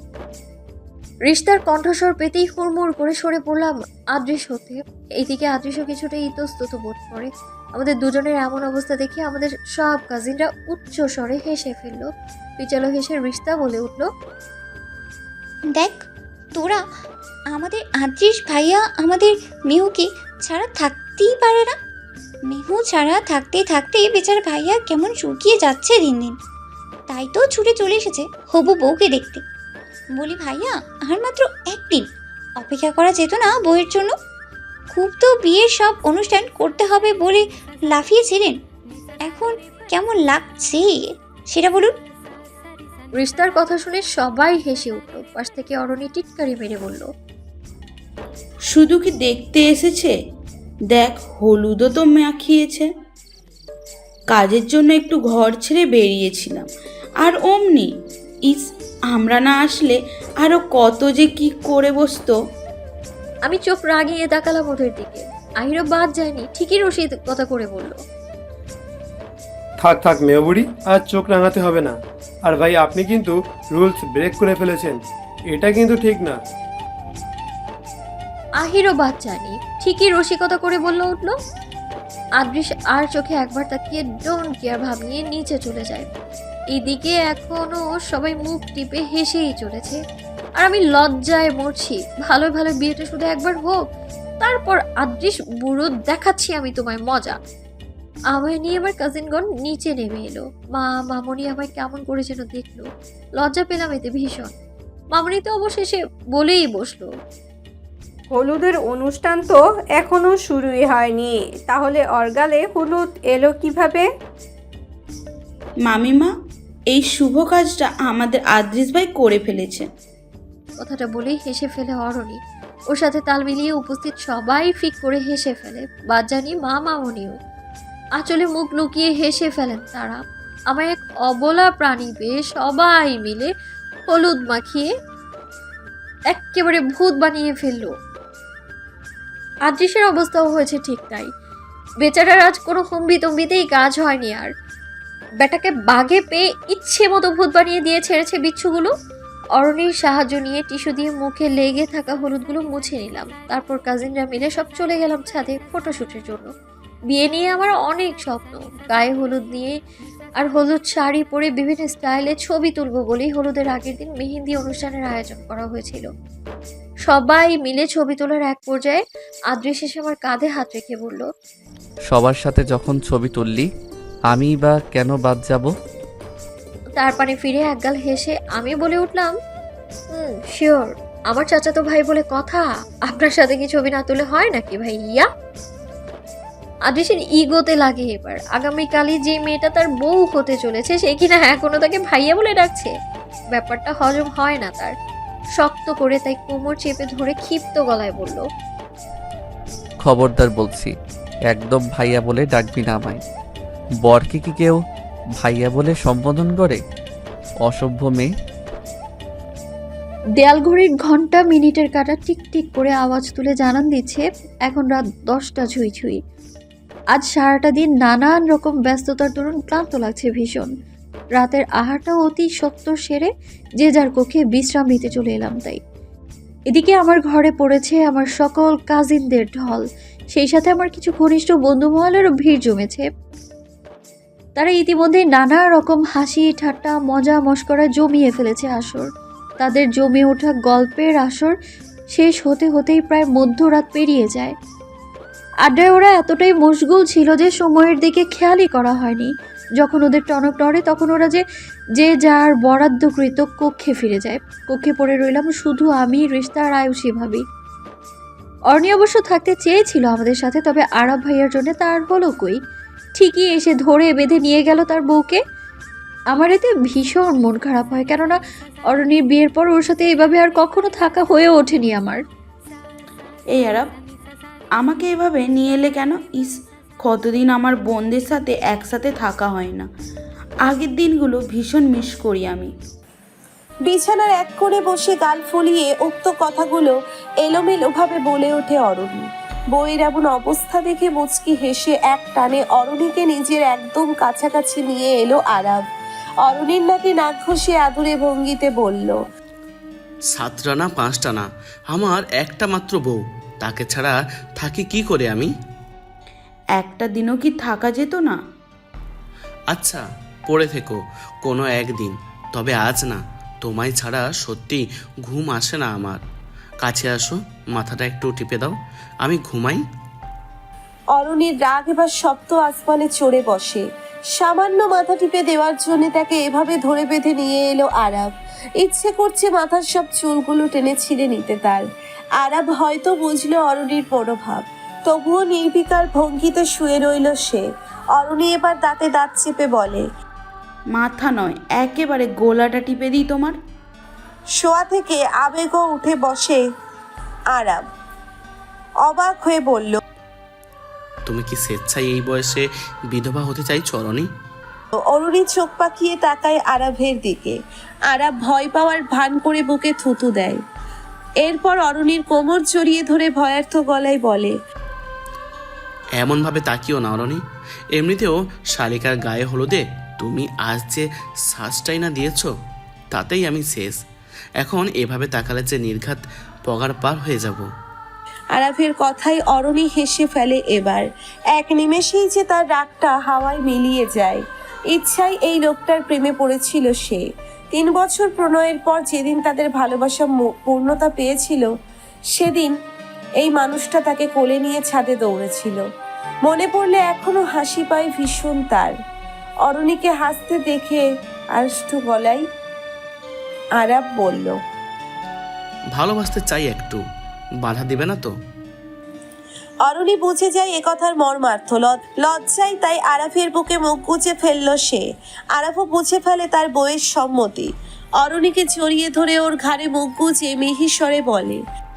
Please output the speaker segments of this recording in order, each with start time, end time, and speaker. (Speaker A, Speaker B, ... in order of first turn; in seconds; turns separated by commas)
Speaker A: 1.2-14.1, Speaker B: 15.7-16.8, Speaker B: 17.5-21.7, Speaker B: 22.5-26.3, Speaker B: 27.1-29.4, Speaker B: 30.2-32.0, Speaker B: 32.6-34.1, Speaker B: 34.9-38.5, Speaker B: 39.2-41.9, Speaker A: 43.2-47.1, Speaker C: 48.7-50.1, Speaker C: 50.9-52.9, Speaker C: 54.3-56.7, Speaker C: 57.2-57.9, Speaker C: 58.5-62.3, Speaker A: 63.5-68.0, Speaker D: 69.8-71.9, Speaker D: 72.5-75.0, Speaker D: 75.5-76.4, Speaker A: 78.6-81.3, Speaker A: 82.4-86.1, Speaker A: 86.7-90.0, Speaker A: 90.6-93.8, Speaker A: 94.4-97.4, Speaker A: 98.3-102.8, Speaker A: 103.4-104.5, Speaker A: 105.1-107.1, Speaker E: 108.3-114.0, Speaker C: 115.9-116.3, Speaker C: 116.9-119.8, Speaker A: 120.8-122.4, Speaker A: 122.9-127.3, Speaker A: 128.2-130.2, Speaker A: 130.7-133.5, Speaker A: 134.1-134.9, Speaker A: 136.3-137.9, Speaker A: 139.7-141.3, Speaker A: 142.0-144.5, Speaker A: 145.4-148.9, Speaker A: 149.6-156.5, Speaker A: 157.1-159.7, Speaker A: 160.4-166.1, Speaker A: 167.1-171.2, Speaker F: 172.1-173.7, Speaker F: 174.3-175.7, Speaker A: 177.0-179.3, Speaker A: 180.1-185.3, Speaker A: 186.9-192.9, Speaker A: 193.5-194.9, Speaker A: 195.6-198.4, Speaker F: 200.0-200.9, Speaker F: 201.5-203.2, Speaker F: 204.0-204.8, Speaker F: 205.4-206.8, Speaker F: 207.6-208.3, Speaker A: 210.4-216.2, Speaker A: 217.1-220.7, Speaker A: 221.3-225.8, Speaker A: 226.7-233.1, Speaker A: 234.6-239.1, Speaker A: 239.6-241.5, Speaker A: 242.1-244.5, Speaker A: 245.6-251.4, Speaker A: 252.0-257.4, Speaker A: 258.7-262.6, Speaker A: 263.2-265.4, Speaker A: 266.3-272.2, Speaker C: 273.5-273.9, Speaker C: 274.8-279.9, Speaker C: 280.7-282.7, Speaker G: 283.9-295.8, Speaker G: 296.4-299.2, Speaker H: 300.3-305.5, Speaker C: 306.8-308.4, Speaker H: 309.7-316.2, Speaker H: 316.8-319.8, Speaker G: 321.1-331.9, Speaker G: 332.4-340.0, Speaker C: 340.9-343.6, Speaker G: 344.6-346.6, Speaker G: 347.5-347.8, Speaker G: 349.0-350.0, Speaker H: 351.2-354.3, Speaker G: 355.0-357.6, Speaker G: 358.1-360.6, Speaker G: 361.4-364.5, Speaker H: 366.2-367.4, Speaker H: 367.9-372.5, Speaker H: 373.1-374.0, Speaker H: 374.6-377.7, Speaker G: 378.5-391.7, Speaker G: 392.3-392.7, Speaker G: 393.4-395.8, Speaker G: 396.4-398.9, Speaker G: 399.6-402.4, Speaker G: 403.8-404.6, Speaker H: 405.9-407.0, Speaker H: 407.6-408.3, Speaker G: 409.9-421.6